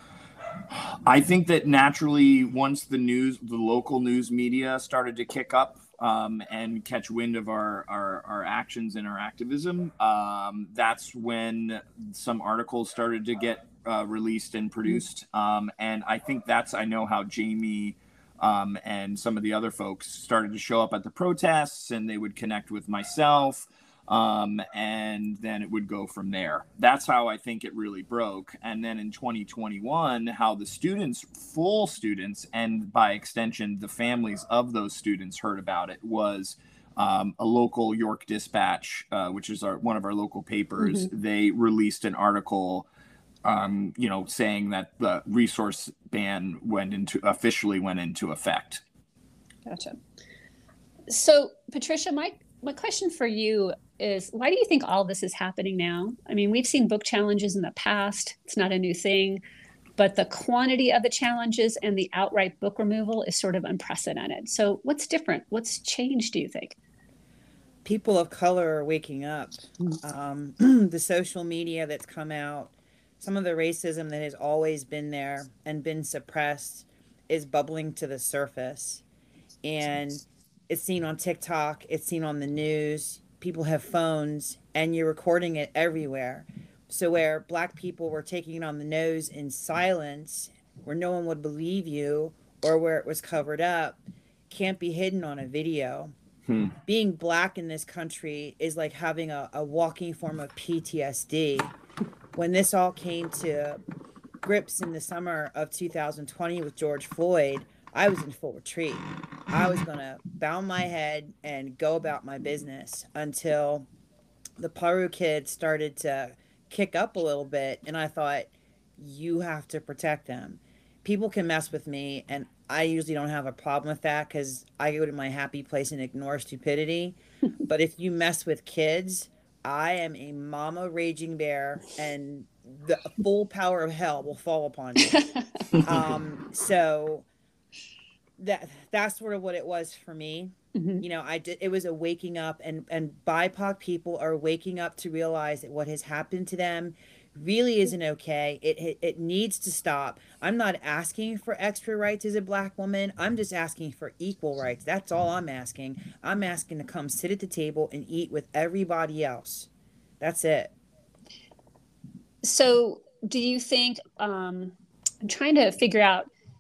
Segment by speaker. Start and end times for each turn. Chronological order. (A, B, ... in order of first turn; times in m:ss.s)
0:00.8-0:42.9 A
0:40.8-0:41.1 B
0:43.4-0:48.8 A
0:49.7-0:50.0 B
0:51.1-0:59.4 B
1:00.0-1:06.8 B
1:07.8-1:19.0 C
1:19.6-1:36.1 C
1:36.5-1:36.7 A
1:36.9-1:41.7 C
1:42.4-1:43.8 C
1:44.4-1:53.9 C
1:54.6-2:15.2 C
2:15.8-2:17.2 C
2:18.4-2:39.7 C
2:20.8-2:21.0 B
2:40.2-2:40.7 C
2:42.4-2:46.3 B